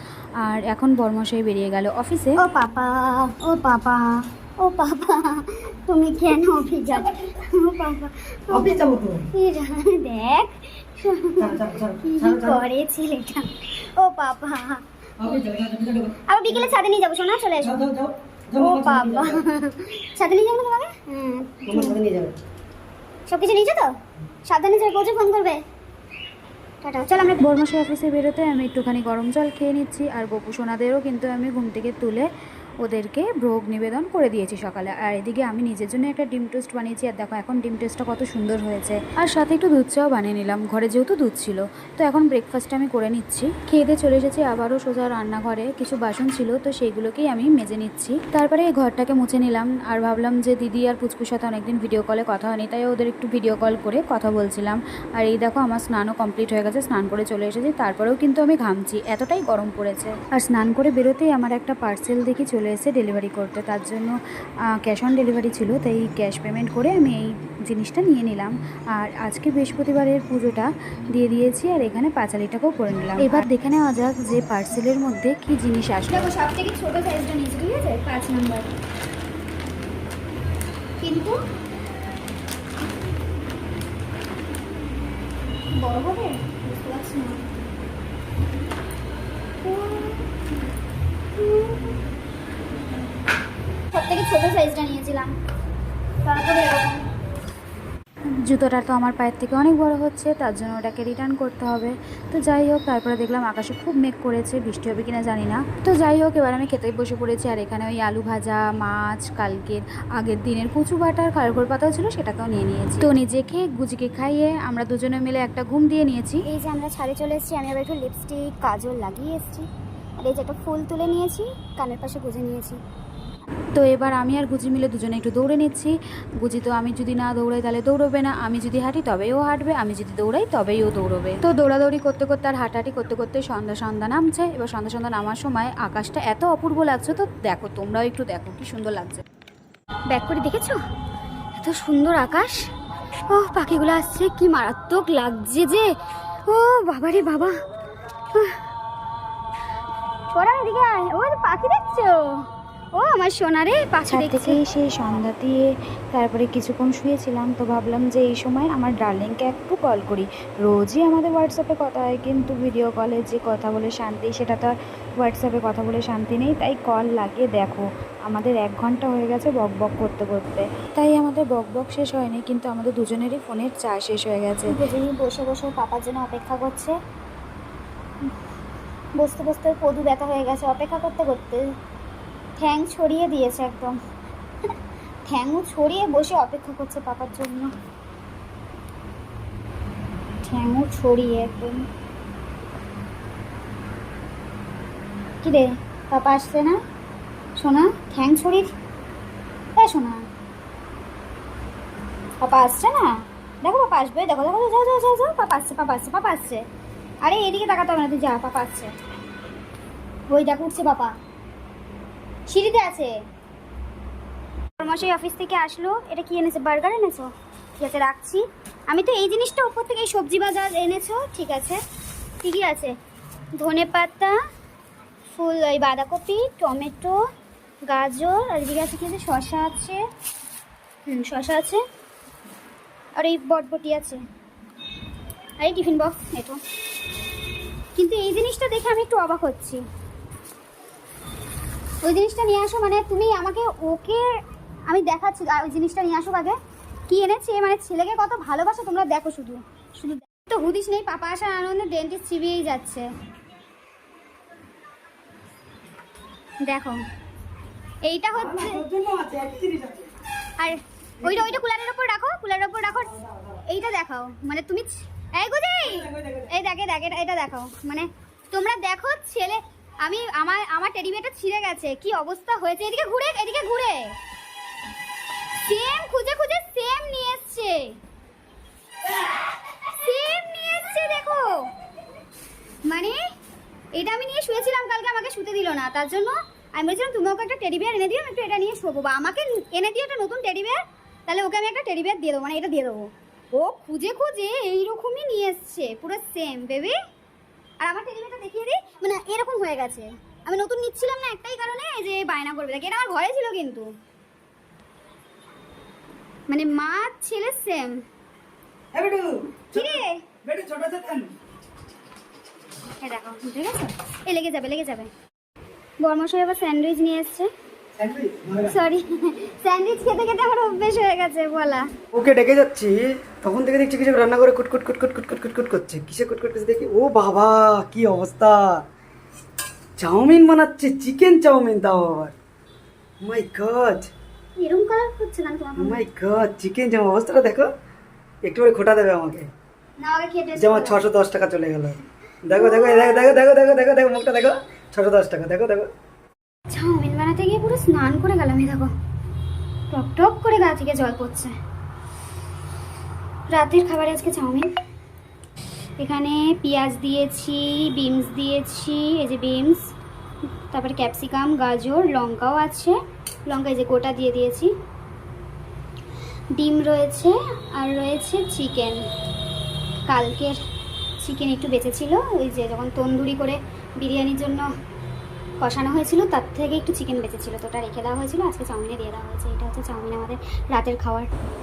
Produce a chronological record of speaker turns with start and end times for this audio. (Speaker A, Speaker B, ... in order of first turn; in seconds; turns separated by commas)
Speaker A: 0.4-2.4, Speaker B: 2.4-14.8, Speaker C: 8.5-9.3, Speaker C: 11.4-12.6, Speaker C: 15.2-16.1, Speaker B: 16.3-17.9, Speaker C: 17.8-19.4, Speaker B: 18.5-22.0, Speaker C: 21.7-22.4, Speaker B: 23.3-23.9, Speaker B: 24.4-25.6, Speaker B: 26.8-27.5, Speaker A: 27.4-32.3, Speaker A: 32.8-64.2, Speaker A: 64.8-76.3, Speaker B: 76.1-78.7, Speaker B: 81.0-81.4, Speaker B: 85.8-87.5, Speaker B: 89.6-90.3, Speaker B: 91.3-92.0, Speaker B: 93.9-95.3, Speaker B: 96.2-97.0, Speaker A: 98.5-116.4, Speaker B: 116.5-122.8, Speaker A: 123.7-139.2, Speaker B: 140.1-140.8, Speaker B: 141.6-142.7, Speaker B: 143.3-145.9, Speaker B: 146.4-147.5, Speaker B: 148.3-148.6, Speaker B: 150.3-154.6, Speaker A: 154.1-174.8, Speaker B: 174.7-176.9, Speaker B: 179.2-181.7, Speaker B: 182.6-183.9, Speaker B: 185.3-187.7, Speaker B: 190.4-191.9, Speaker B: 195.4-196.8, Speaker B: 197.6-198.7, Speaker B: 199.8-200.2, Speaker B: 202.4-203.1, Speaker B: 203.6-206.6, Speaker B: 207.2-208.9, Speaker B: 210.3-211.2, Speaker B: 212.5-213.2, Speaker B: 214.8-221.8, Speaker B: 222.4-222.9, Speaker B: 223.6-224.3, Speaker B: 225.3-227.2, Speaker B: 227.8-230.0, Speaker B: 231.1-231.8, Speaker B: 233.1-234.2, Speaker B: 235.6-236.6, Speaker B: 237.9-239.8, Speaker B: 242.0-244.3, Speaker B: 244.9-246.6, Speaker B: 247.1-253.1, Speaker B: 256.6-257.0, Speaker B: 258.0-259.0, Speaker C: 258.9-260.1, Speaker B: 260.6-274.1, Speaker B: 275.6-277.9, Speaker B: 279.9-281.5, Speaker B: 282.9-283.2, Speaker B: 283.9-297.0, Speaker B: 297.8-303.9, Speaker B: 306.5-308.0, Speaker C: 308.9-311.3, Speaker B: 309.7-310.2, Speaker B: 313.0-315.1, Speaker B: 316.0-317.5, Speaker C: 318.0-318.8, Speaker B: 318.6-321.9, Speaker C: 322.1-328.8, Speaker C: 330.0-332.4, Speaker C: 333.2-334.1, Speaker B: 334.6-336.0, Speaker C: 335.8-337.7, Speaker C: 338.4-339.5, Speaker B: 340.0-341.0, Speaker C: 340.6-345.9, Speaker B: 342.5-343.4, Speaker B: 346.7-348.9, Speaker B: 349.9-351.5, Speaker B: 353.5-354.7, Speaker B: 356.0-359.9, Speaker B: 360.7-364.7, Speaker B: 366.6-369.1, Speaker B: 370.1-370.6, Speaker B: 371.2-374.7, Speaker B: 375.6-381.3